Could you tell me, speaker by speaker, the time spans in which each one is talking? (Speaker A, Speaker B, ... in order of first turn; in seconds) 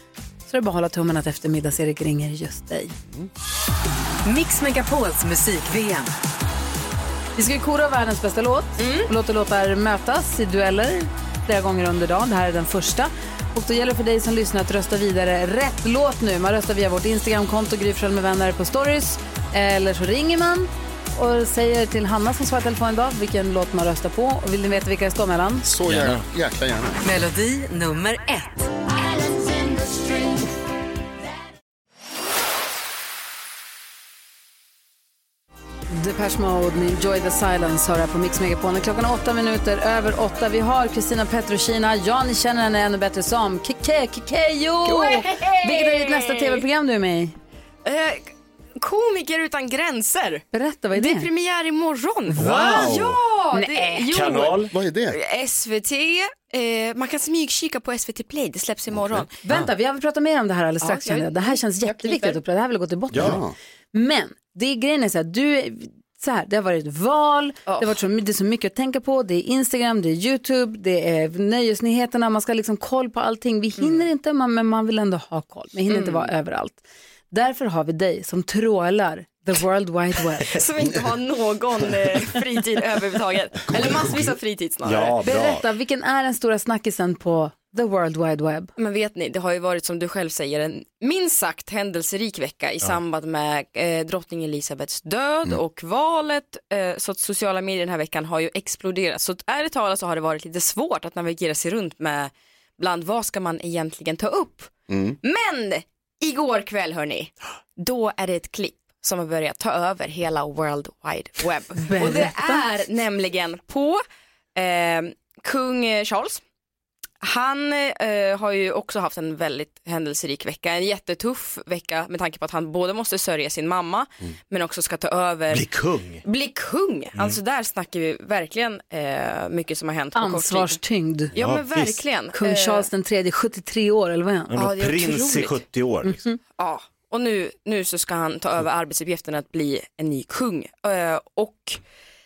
Speaker A: 0.5-2.9, 7.3-25.6, 35.9-47.3, 50.5-51.3, 52.3-53.0, 53.5-54.0, 59.4-80.5, 85.2-88.7, 111.8-112.7, 130.1-131.3, 132.3-134.6, 136.0-136.4
Speaker B: 4.2-6.1, 27.0-28.6
Speaker C: 8.8-9.1, 44.8-46.6, 47.8-59.3, 60.8-62.4, 67.7-68.0, 73.8-74.0, 75.9-76.3, 80.5-85.2, 88.8-104.7, 105.2-114.0, 114.5-116.4, 117.2-125.7, 126.2-130.8, 131.3-132.9, 134.5-135.6, 136.5-141.8
Speaker D: 25.6-27.0, 54.7-55.1, 63.1-63.5, 104.9-105.2
Speaker E: 25.9-26.2, 52.3-53.2, 54.1-54.7, 63.1-63.4, 83.7-84.2, 84.8-85.6, 125.5-126.2, 127.1-127.4, 131.3-132.0, 134.5-136.2